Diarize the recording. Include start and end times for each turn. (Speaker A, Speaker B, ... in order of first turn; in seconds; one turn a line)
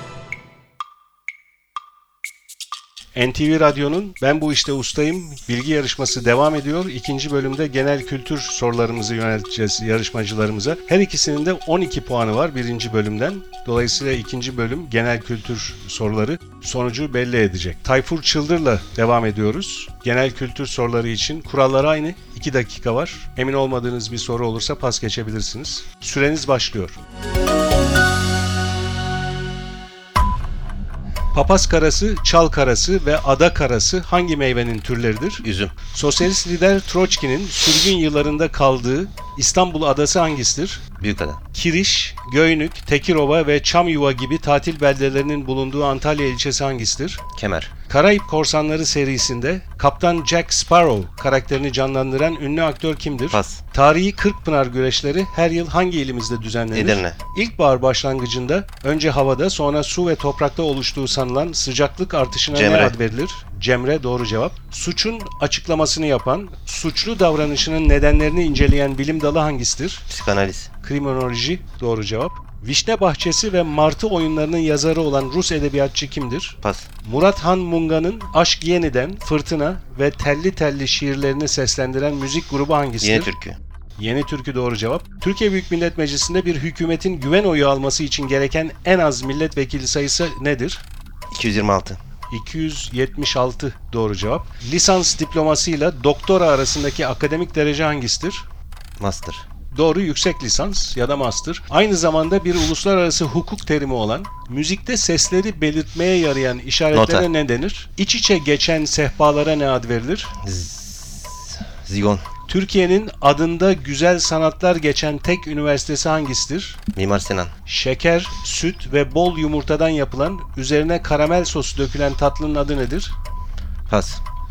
Speaker A: 3.1-27.0
Speaker A: 31.3-40.8
Speaker B: 35.4-35.7
Speaker B: 41.0-41.4
Speaker A: 41.5-47.2
Speaker B: 47.4-47.7
Speaker A: 47.9-70.0
Speaker B: 53.3-53.6
Speaker B: 56.7-57.2
Speaker B: 62.5-63.0
Speaker B: 70.1-70.7
Speaker A: 70.8-83.3
Speaker B: 76.6-76.9
Speaker B: 83.0-83.6
Speaker A: 84.0-90.9
Speaker B: 91.3-92.0
Speaker A: 92.3-98.5
Speaker B: 99.0-99.5
Speaker A: 99.7-110.3
Speaker B: 106.9-107.3
Speaker B: 110.4-112.2
Speaker A: 112.5-116.8
Speaker B: 116.9-117.5
Speaker A: 117.7-123.2
Speaker B: 123.9-124.2